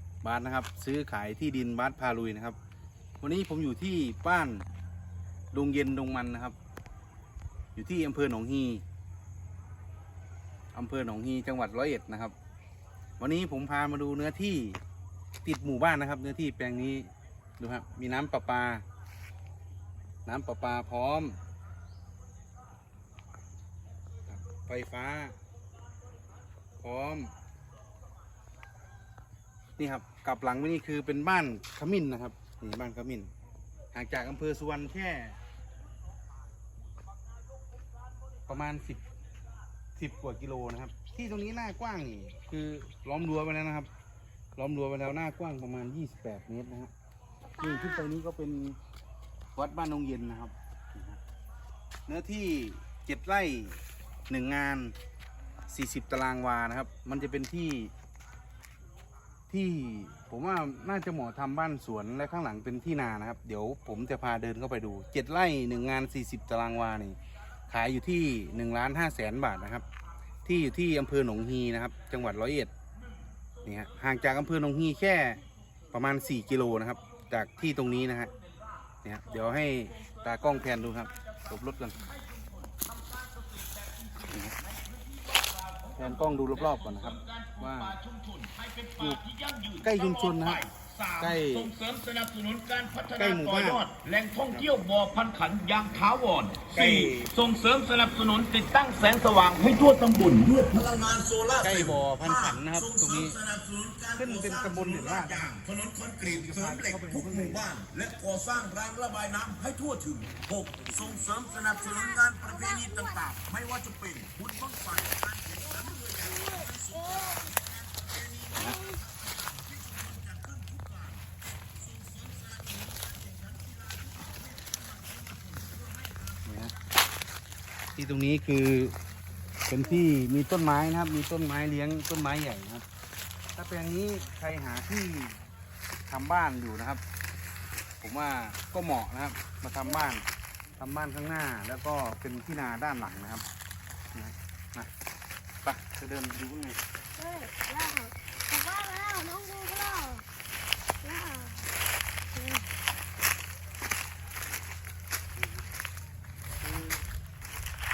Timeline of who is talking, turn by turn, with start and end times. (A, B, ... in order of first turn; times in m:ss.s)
0:00.2-0:02.6 A
0:03.2-0:04.6 A
0:05.5-0:06.6 A
0:07.8-0:08.8 A
0:10.7-0:12.3 A
0:13.2-0:14.8 A
0:15.4-0:18.8 A
0:20.2-0:21.4 A
0:24.3-0:25.4 A
0:26.8-0:27.3 A
0:29.8-0:33.3 A
0:33.9-0:35.4 A
0:38.5-0:39.0 A
0:40.0-0:43.9 A
0:44.6-0:46.9 A
0:47.4-0:48.2 B
0:47.6-0:48.8 A
0:49.5-0:51.2 A
0:52.1-0:54.9 A
0:55.7-0:57.9 A
0:59.5-1:09.8 A
1:10.4-1:12.7 A
1:13.6-1:15.4 A
1:15.9-1:18.3 A
1:19.0-1:22.0 A
1:20.0-2:06.4 C
1:24.3-1:24.6 A
1:26.0-1:28.0 A
1:29.8-1:31.7 A
1:33.1-1:33.9 A
1:36.7-1:37.3 A
1:41.6-1:43.4 A
1:44.1-1:45.5 A
1:46.2-1:47.7 A
1:50.9-1:51.2 A
1:51.2-1:53.3 B
1:55.7-1:57.5 B
1:58.5-1:59.0 B
1:58.6-1:58.8 A
2:06.4-2:06.7 A
2:08.0-2:09.0 A
2:09.7-2:12.8 A
2:13.5-2:15.4 A
2:16.1-2:17.0 A
2:18.0-2:20.3 A
2:20.8-2:23.4 A
2:24.1-2:24.9 A
2:25.6-2:26.8 A
2:27.2-2:30.2 B
2:31.0-2:31.7 B
2:32.3-2:32.7 B
2:36.6-2:37.0 A